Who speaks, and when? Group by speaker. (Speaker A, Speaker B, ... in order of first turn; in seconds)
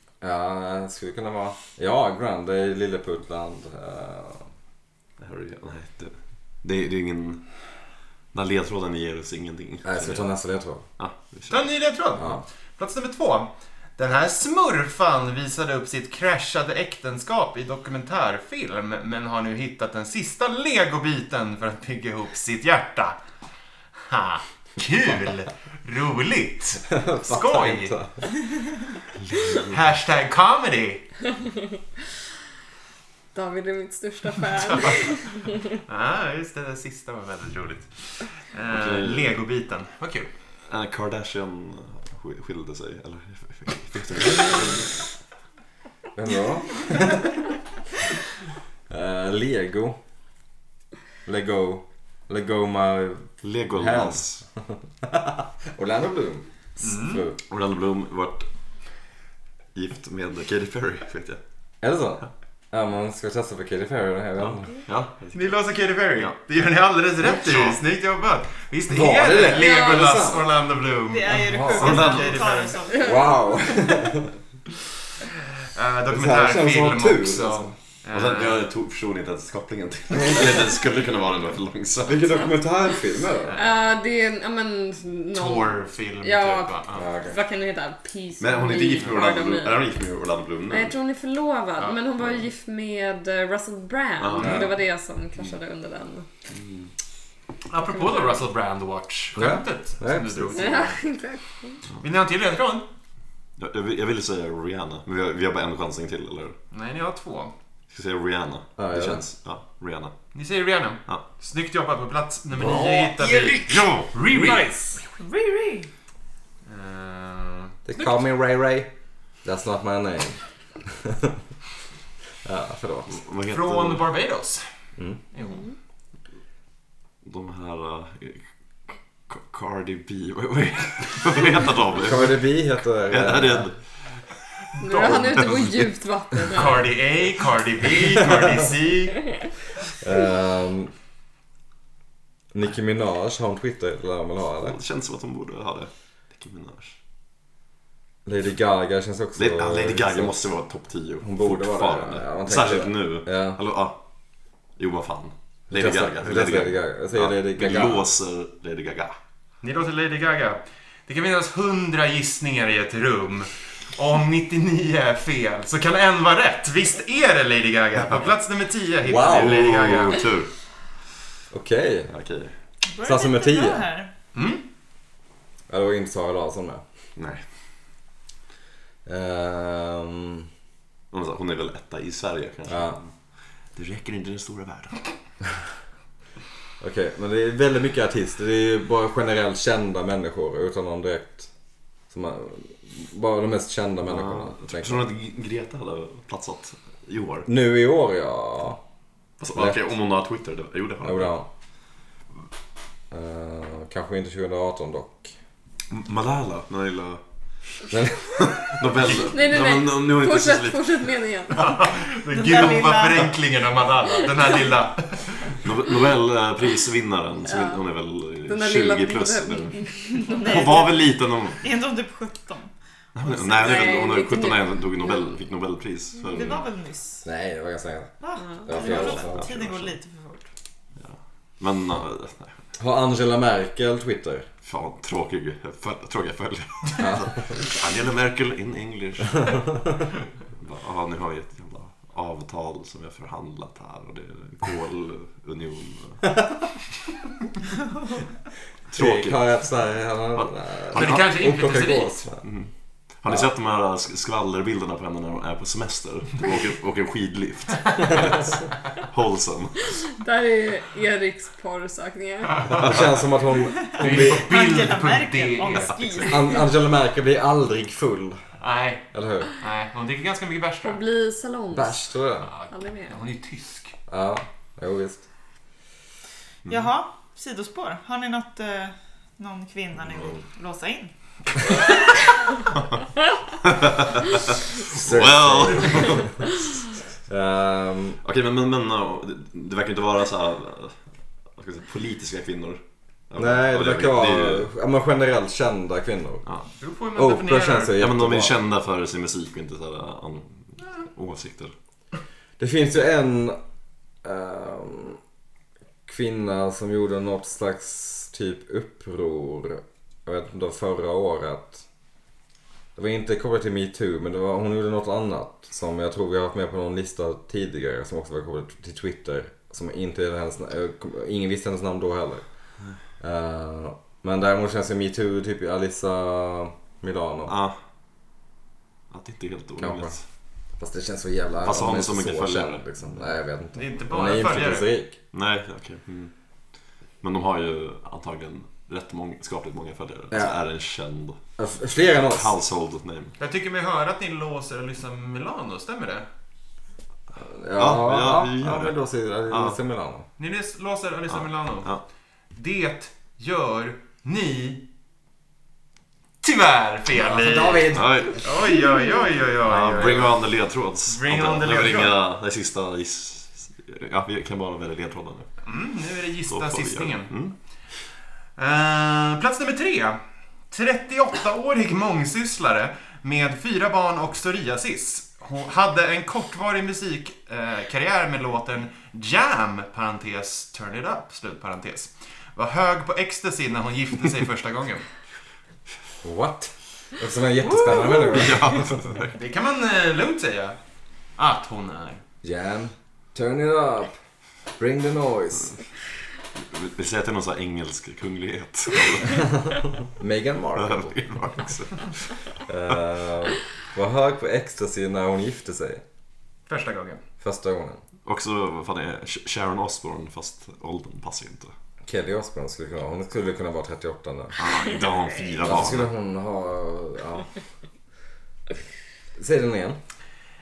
Speaker A: 0.2-4.5, 9.8-10.9, 12.2-12.4, 26.9-28.3, 46.1-47.4, 48.9-50.0, 51.2-57.4, 61.8-64.7, 68.9-70.5, 71.3-72.0, 73.0-74.3, 76.1-77.7, 80.1-80.7, 82.0-83.6, 86.9-87.4, 94.4-94.7, 99.4-100.7, 108.8-109.2, 112.6-113.0, 117.9-118.9, 119.4-121.4, 122.4-123.2, 132.0-133.7, 139.9-140.9, 142.5-144.8, 148.3-150.4, 151.2-153.6, 155.7-158.1, 169.0-169.9, 171.5-172.1, 173.1-173.9, 175.7-176.8, 179.1-180.5, 182.7-183.0, 186.8-191.5, 192.1-195.1, 197.5-198.8, 199.5-199.8, 201.0-201.5, 203.1-205.3, 207.9-209.0, 227.2-229.4, 232.8-234.5, 237.0-237.3, 246.3-246.6, 248.9-252.4, 262.7-264.5, 266.3-268.4, 269.1-269.5, 271.7-272.5, 274.1-275.2, 284.9-286.5, 287.3-288.2, 293.4-296.4, 297.1-298.6, 302.6-303.6, 304.2-305.2, 306.1-311.9, 312.9-327.5, 329.8-330.2, 330.8-335.2, 340.3-340.6, 341.6-342.5, 347.4-350.3, 357.1-358.4, 386.2-389.0, 392.4-394.2, 394.8-395.8, 399.2-401.2, 402.7-406.0, 407.4-408.0, 412.1-414.7, 415.6-417.5, 419.4-420.0
Speaker B: 5.2-7.5, 8.3-10.3, 11.0-11.7, 29.2-29.8, 38.7-39.3, 40.7-45.0, 53.4-54.4, 57.5-58.5, 59.7-61.4, 64.5-65.6, 67.3-67.8, 71.8-72.5, 78.1-82.5, 88.4-91.0, 94.2-94.8, 96.5-96.9, 103.6-106.6, 107.9-110.2, 112.7-114.6, 123.1-124.1, 127.2-132.4, 133.1-134.1, 134.8-135.9, 144.6-147.0, 149.4-154.0, 154.8-159.2, 169.3-170.5, 172.1-172.5, 177.2-177.4, 181.1-183.1, 183.7-185.2, 194.1-197.5, 199.4-201.3, 205.9-207.2, 208.4-211.1, 215.6-221.6, 223.2-226.7, 228.8-230.0, 231.0-232.6, 234.6-239.7, 240.5-246.3, 248.9-249.4, 250.4-251.3, 252.4-259.9, 266.0-266.3, 280.1-280.4, 283.6-286.4, 288.2-294.7, 298.0-301.7, 327.5-327.8, 329.1-330.2, 331.6-332.8, 335.3-336.3, 337.2-341.4, 342.2-343.4, 347.8-348.9, 349.5-349.8, 351.3-352.0, 357.9-358.4, 359.6-365.5, 366.5-367.5, 388.2-389.4, 396.6-399.6, 400.8-402.6, 408.3-411.7, 414.6-416.1
Speaker C: 11.5-23.2, 24.1-27.9, 29.5-31.1, 34.5-35.3, 35.8-40.3, 56.8-57.3, 65.3-72.8, 75.7-78.6, 83.5-83.8, 85.3-87.1, 97.7-101.0, 102.0-102.9, 106.7-107.5, 110.3-115.0, 116.7-118.2, 123.5-124.7, 125.3-125.7, 136.5-139.3, 159.6-170.3, 174.3-174.6, 211.6-215.6, 250.9-252.2, 264.0-265.9, 268.6-269.1, 269.6-271.0, 272.4-273.9, 296.8-298.0, 333.7-334.9, 343.4-346.3, 350.4-352.0, 352.5-354.8, 356.4-360.5, 361.1-362.2, 365.6-367.5, 368.6-385.1, 389.3-390.8, 391.4-392.2, 406.7-407.2
Speaker D: 31.4-31.7, 33.3-35.6, 69.6-70.2, 72.9-73.9, 83.5-89.8, 90.7-96.3, 100.5-101.8, 125.4-125.7, 134.8-136.8, 209.2-211.8, 214.1-214.5, 217.5-217.8, 218.4-220.4, 223.5-225.4, 228.4-228.7, 260.2-262.6, 270.8-272.1, 272.7-273.2
Speaker E: 71.1-73.3, 113.2-113.6, 115.0-115.9, 172.8-174.1, 212.3-213.4, 220.2-222.7, 226.3-227.2, 228.2-230.5, 263.8-266.6, 276.7-281.1